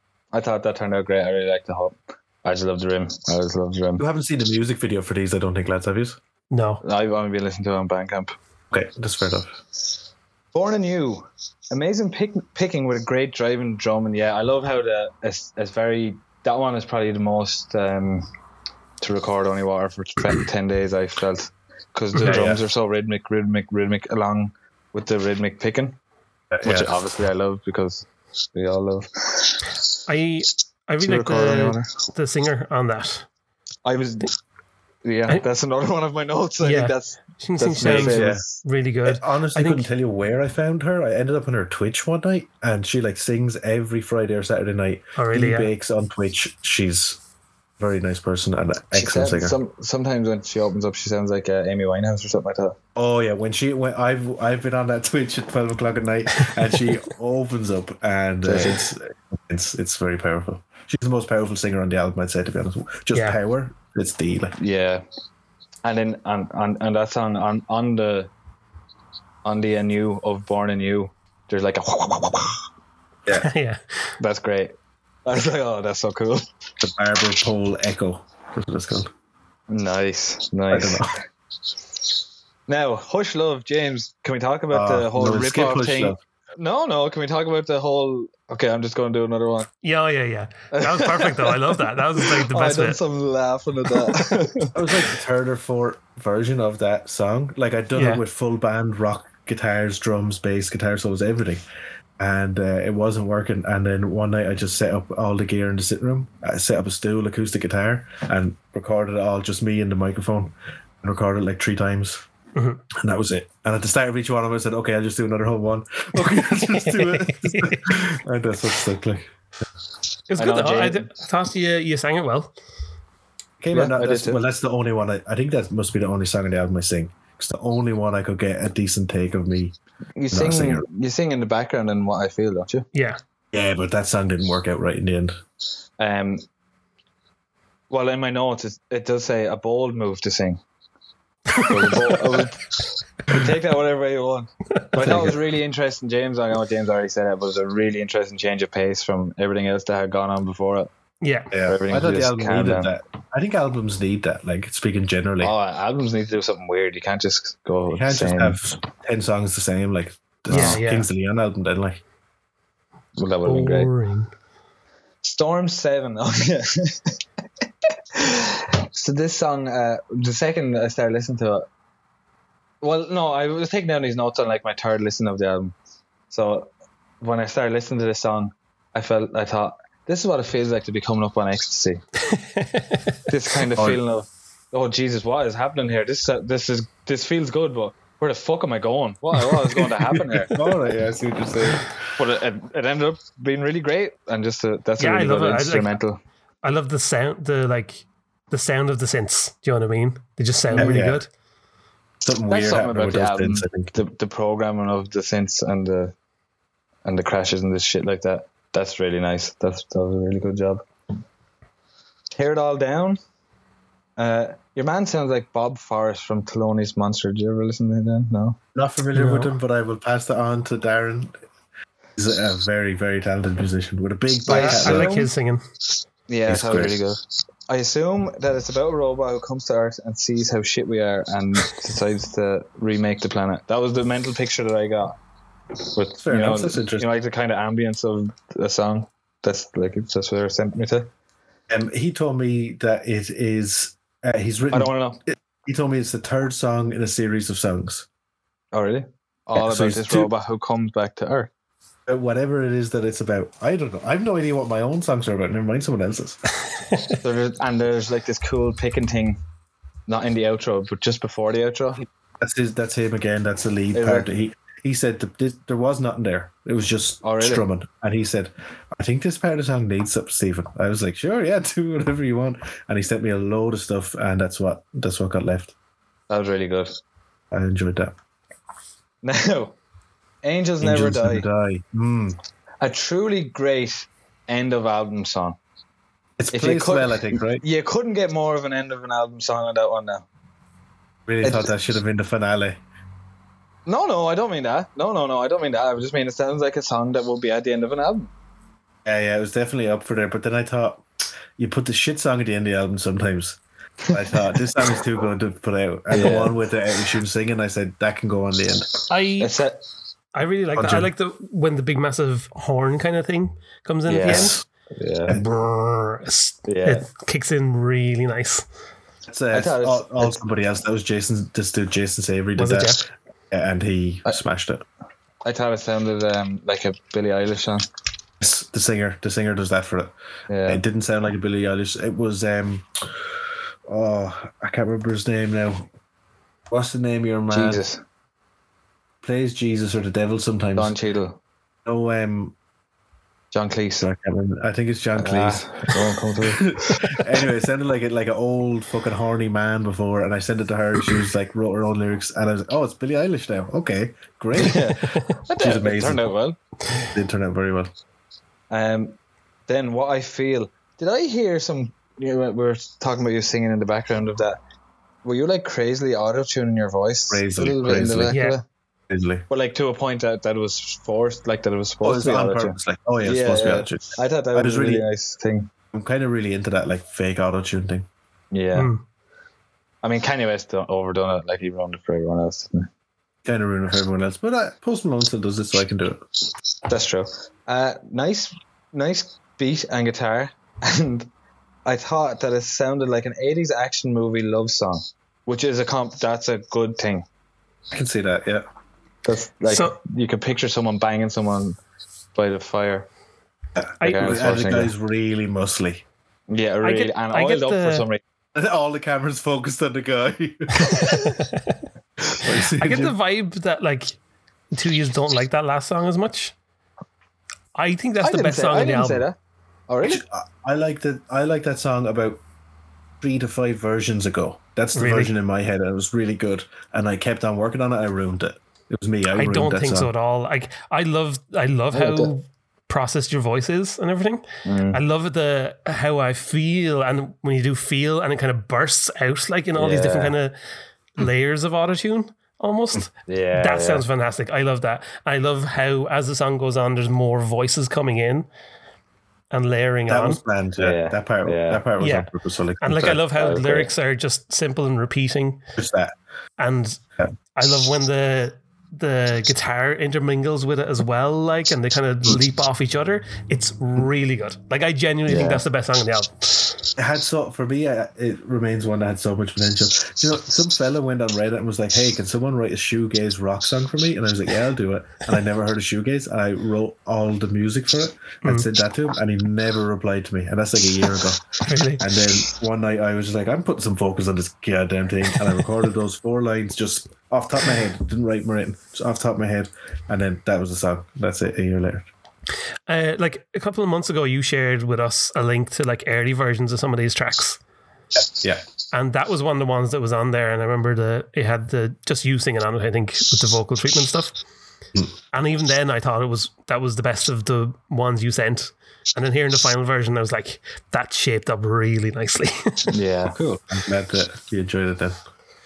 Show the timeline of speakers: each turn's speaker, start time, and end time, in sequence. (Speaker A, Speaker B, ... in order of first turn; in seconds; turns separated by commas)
Speaker A: 0.3-4.0, Speaker B: 4.0-6.2, Speaker C: 6.5-6.8, Speaker A: 6.8-8.3, Speaker B: 8.7-9.6, Speaker A: 10.5-18.3, Speaker A: 19.0-26.0, Speaker C: 22.1-22.5, Speaker B: 22.2-22.6, Speaker B: 26.5-27.1, Speaker A: 26.6-29.8, Speaker C: 30.1-33.2, Speaker A: 31.0-31.9, Speaker A: 33.8-34.3, Speaker A: 35.0-38.6, Speaker C: 36.6-39.9, Speaker B: 37.8-38.4, Speaker B: 39.0-47.2, Speaker C: 45.1-45.7, Speaker B: 47.8-49.5, Speaker A: 48.9-52.8, Speaker B: 53.0-64.5, Speaker A: 58.4-58.8, Speaker C: 63.1-63.4, Speaker A: 64.6-65.0, Speaker A: 65.8-68.3, Speaker A: 69.4-72.6, Speaker C: 73.3-74.1, Speaker A: 74.2-74.7, Speaker A: 75.2-76.4, Speaker B: 76.8-79.1, Speaker A: 79.7-81.1, Speaker B: 80.7-81.1, Speaker A: 82.7-89.7, Speaker B: 84.7-86.2, Speaker C: 89.8-93.0, Speaker A: 90.7-94.8, Speaker B: 94.7-101.6, Speaker C: 97.9-98.2, Speaker B: 102.2-112.2, Speaker C: 112.5-112.8, Speaker B: 112.9-119.3, Speaker C: 116.5-117.9, Speaker C: 120.3-122.5, Speaker A: 120.4-121.1, Speaker B: 123.6-129.8, Speaker A: 123.7-124.4, Speaker A: 130.2-132.9, Speaker B: 130.3-130.8, Speaker C: 132.9-133.2, Speaker B: 133.5-135.3, Speaker A: 136.0-136.4, Speaker A: 137.9-140.6, Speaker C: 141.5-142.4, Speaker A: 141.5-150.9, Speaker B: 144.9-145.4, Speaker C: 151.2-151.5, Speaker B: 151.5-155.5, Speaker A: 151.7-152.9, Speaker A: 155.4-158.6, Speaker B: 157.9-162.0, Speaker C: 160.5-161.1, Speaker A: 160.5-160.8, Speaker A: 163.2-163.9, Speaker C: 163.4-164.3, Speaker A: 165.2-167.1, Speaker A: 168.1-171.7, Speaker A: 172.8-175.7, Speaker A: 176.3-176.7, Speaker A: 177.2-182.0, Speaker C: 182.3-183.2, Speaker A: 183.3-190.6, Speaker B: 183.7-184.0, Speaker B: 190.0-191.9, Speaker A: 191.6-196.2, Speaker C: 195.0-195.9, Speaker C: 196.6-201.3, Speaker B: 200.7-201.2, Speaker B: 202.2-203.9, Speaker A: 202.5-206.1, Speaker A: 207.0-210.8, Speaker A: 212.3-213.2, Speaker A: 214.2-218.6, Speaker B: 218.7-221.3, Speaker C: 219.1-219.5, Speaker B: 222.2-225.1, Speaker A: 224.5-225.3, Speaker C: 224.5-225.6, Speaker A: 226.3-235.2, Speaker B: 226.5-227.0, Speaker A: 235.9-241.1, Speaker B: 236.2-237.1, Speaker B: 241.7-248.1, Speaker A: 244.7-245.2, Speaker A: 248.7-251.5, Speaker B: 249.6-250.3, Speaker B: 252.1-256.4, Speaker A: 257.2-259.4, Speaker A: 260.1-262.0, Speaker B: 262.4-275.7, Speaker A: 263.9-264.3, Speaker A: 267.2-267.6, Speaker A: 276.3-276.9, Speaker B: 277.5-278.1, Speaker A: 279.2-279.8, Speaker A: 280.4-281.5, Speaker B: 280.8-282.4, Speaker A: 282.8-285.6, Speaker B: 286.4-287.6, Speaker A: 286.5-290.2, Speaker B: 291.3-292.8, Speaker A: 291.4-291.7, Speaker A: 293.9-298.3, Speaker B: 299.0-301.1, Speaker B: 301.6-308.9, Speaker A: 304.1-304.4, Speaker A: 306.1-306.6, Speaker C: 309.1-309.5, Speaker A: 309.4-309.8, Speaker C: 310.3-314.6, Speaker B: 310.8-311.1, Speaker A: 314.1-315.4, Speaker B: 314.3-314.6, Speaker C: 315.3-318.6, Speaker A: 316.7-317.1, Speaker B: 319.3-324.8, Speaker A: 319.5-320.4, Speaker C: 322.6-323.0, Speaker A: 325.4-327.9, Speaker B: 328.4-330.1, Speaker A: 330.5-330.8, Speaker B: 330.7-332.9, Speaker B: 333.9-335.9, Speaker B: 336.7-337.8, Speaker A: 337.5-338.0, Speaker B: 339.2-340.9, Speaker A: 340.8-341.4, Speaker B: 341.8-342.6, Speaker A: 343.5-344.1, Speaker B: 344.0-355.0, Speaker A: 345.1-347.2, Speaker A: 354.6-356.6, Speaker B: 355.6-356.3, Speaker B: 357.0-357.9, Speaker A: 358.7-359.2, Speaker A: 359.7-364.6, Speaker A: 365.2-368.6, Speaker B: 367.3-368.4, Speaker C: 368.3-368.6, Speaker B: 369.1-369.4, Speaker A: 369.5-375.7, Speaker B: 372.0-375.1, Speaker B: 375.9-378.1, Speaker A: 378.5-378.9, Speaker C: 378.7-379.0, Speaker A: 380.0-382.9, Speaker B: 383.4-386.2, Speaker A: 386.9-391.3, Speaker A: 391.8-397.2, Speaker B: 397.9-398.6, Speaker A: 399.2-401.8, Speaker C: 399.7-399.9, Speaker A: 402.3-403.1, Speaker B: 403.8-406.0, Speaker C: 404.0-404.4, Speaker A: 404.0-404.9, Speaker A: 406.5-408.2, Speaker C: 406.8-408.0, Speaker B: 408.5-411.1, Speaker C: 410.8-411.8, Speaker B: 412.3-413.1, Speaker C: 412.7-414.2, Speaker C: 414.7-416.5, Speaker C: 417.7-419.2, Speaker A: 418.2-419.4, Speaker A: 419.9-420.2, Speaker B: 420.0-422.4, Speaker B: 423.2-430.1, Speaker C: 424.9-425.3, Speaker C: 429.3-440.6, Speaker A: 431.9-432.3, Speaker A: 434.6-435.0, Speaker A: 439.8-440.3, Speaker C: 441.2-448.5, Speaker A: 443.3-444.0, Speaker C: 449.5-450.4, Speaker B: 450.1-453.2, Speaker A: 450.8-451.8, Speaker C: 452.0-452.3, Speaker C: 452.8-455.6, Speaker A: 453.4-453.9, Speaker B: 455.8-456.1, Speaker C: 456.6-457.0, Speaker C: 457.5-466.6, Speaker A: 465.3-465.6, Speaker B: 467.0-492.1, Speaker C: 481.6-482.1, Speaker C: 492.9-497.6, Speaker B: 498.1-498.6, Speaker C: 498.9-504.3, Speaker C: 505.3-512.9, Speaker A: 512.9-513.4, Speaker B: 513.3-515.2